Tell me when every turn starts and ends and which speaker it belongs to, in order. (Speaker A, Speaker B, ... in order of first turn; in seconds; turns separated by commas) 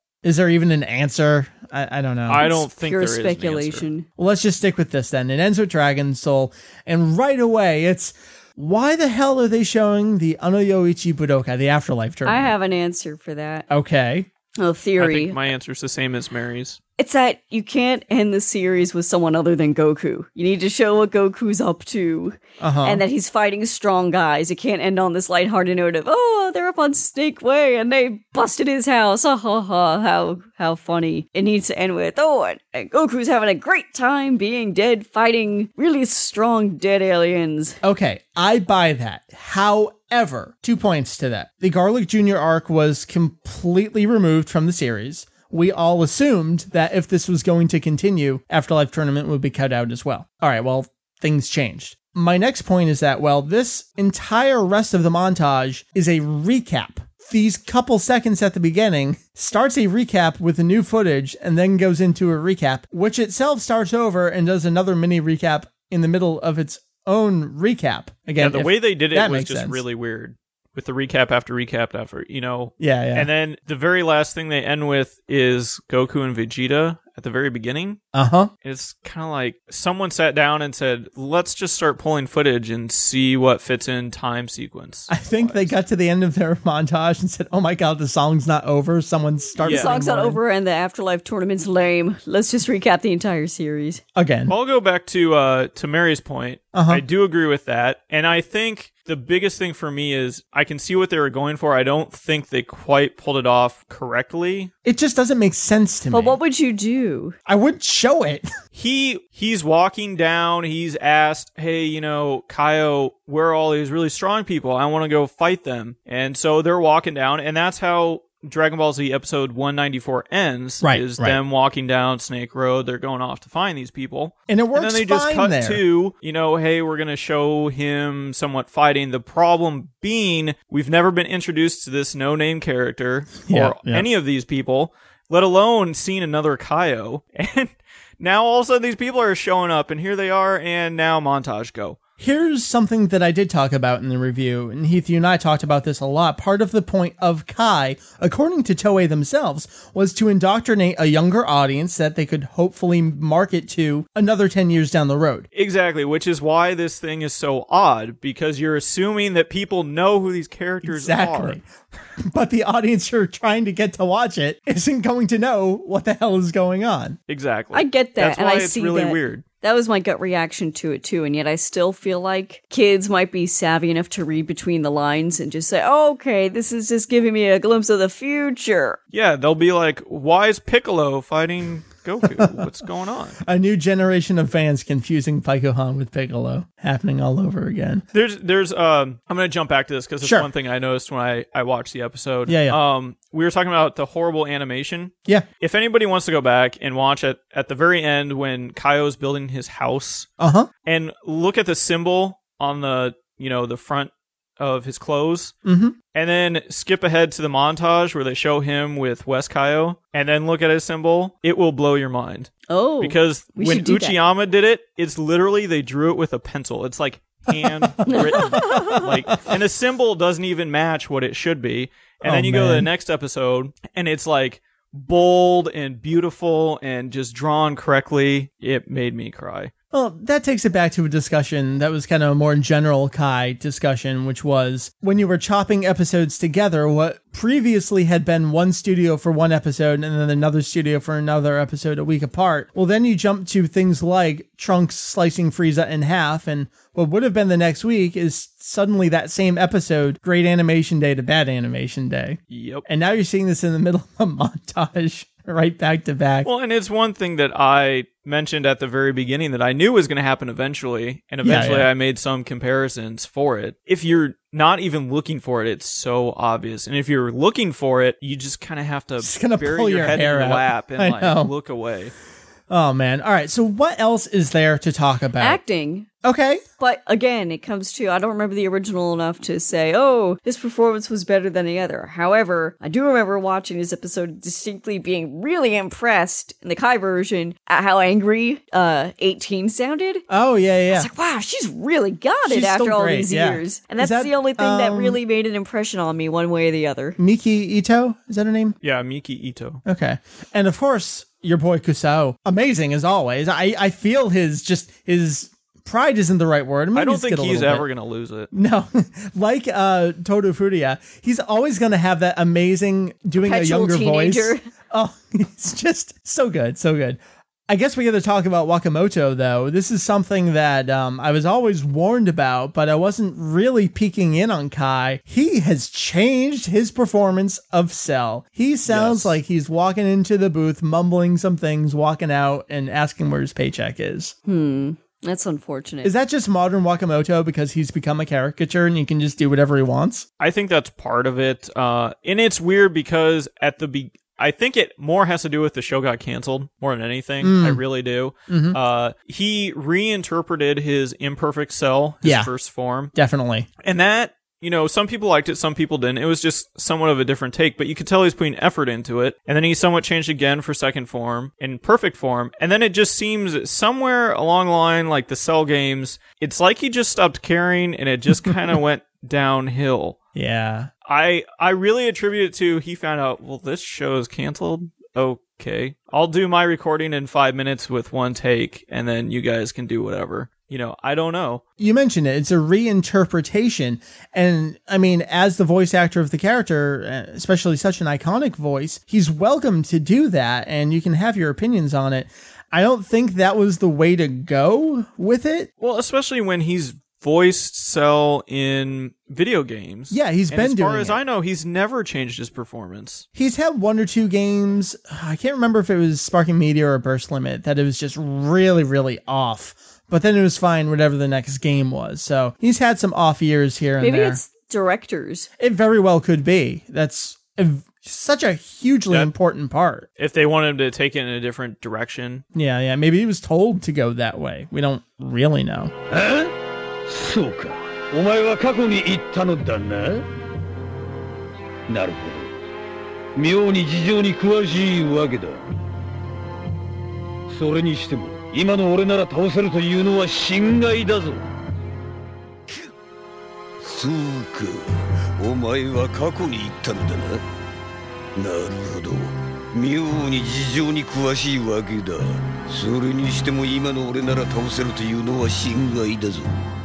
Speaker A: 0.2-2.5, Speaker B: 2.3-3.9, Speaker C: 2.4-4.1, Speaker A: 4.2-12.5, Speaker C: 12.3-13.7, Speaker A: 13.7-14.3, Speaker C: 14.6-15.4, Speaker B: 15.0-16.8, Speaker C: 17.0-37.8, Speaker A: 22.6-23.0, Speaker A: 37.8-69.8, Speaker B: 68.4-78.0, Speaker A: 72.8-73.3, Speaker A: 78.1-78.5, Speaker B: 78.6-85.8, Speaker A: 85.1-90.4, Speaker B: 89.6-90.0, Speaker C: 89.6-94.0, Speaker A: 94.2-94.5, Speaker B: 94.5-104.7, Speaker A: 96.7-97.0, Speaker A: 104.8-106.4, Speaker C: 106.1-107.4, Speaker A: 107.5-108.5, Speaker B: 108.7-142.0, Speaker A: 120.8-121.4, Speaker A: 124.5-125.8, Speaker A: 133.5-134.1, Speaker A: 142.2-155.5, Speaker B: 155.5-161.6, Speaker A: 160.8-161.7, Speaker A: 162.2-167.2, Speaker B: 167.3-169.4, Speaker C: 167.7-179.0, Speaker B: 179.1-183.4, Speaker A: 182.4-182.6, Speaker A: 183.4-188.1, Speaker B: 188.1-200.3, Speaker A: 190.2-190.5, Speaker A: 192.5-192.8, Speaker A: 200.4-200.7, Speaker B: 200.8-205.5, Speaker A: 205.7-205.9, Speaker B: 206.1-229.7, Speaker C: 212.7-214.2, Speaker A: 217.6-219.4, Speaker C: 218.1-219.1, Speaker A: 222.2-222.9, Speaker A: 229.9-256.5, Speaker B: 252.5-252.8, Speaker B: 256.4-272.1, Speaker A: 261.4-261.9, Speaker A: 269.2-271.5, Speaker A: 272.7-275.6, Speaker C: 275.4-276.1, Speaker A: 276.2-276.6, Speaker C: 276.8-290.2, Speaker A: 290.3-291.1, Speaker C: 290.9-297.2, Speaker A: 292.4-295.2, Speaker A: 297.2-298.8, Speaker B: 298.8-299.8, Speaker A: 299.9-307.9, Speaker B: 306.9-308.5, Speaker A: 308.5-334.3, Speaker C: 313.4-314.6, Speaker B: 328.9-329.4, Speaker C: 334.5-336.1, Speaker A: 336.0-340.2, Speaker B: 340.4-353.1, Speaker A: 347.4-347.8, Speaker A: 348.5-348.8, Speaker A: 352.2-352.5, Speaker A: 353.1-353.7, Speaker B: 353.8-370.2, Speaker A: 370.4-370.9, Speaker B: 371.1-381.6, Speaker A: 381.8-395.7, Speaker B: 395.8-403.3, Speaker A: 400.1-401.2, Speaker A: 403.4-414.4, Speaker C: 414.0-415.5, Speaker A: 415.6-420.1, Speaker B: 420.2-422.4, Speaker A: 422.6-425.9, Speaker D: 426.1-426.5, Speaker D: 427.1-430.2, Speaker D: 431.9-432.5, Speaker D: 433.4-435.6, Speaker D: 437.5-441.4, Speaker E: 443.8-447.4, Speaker E: 448.4-456.6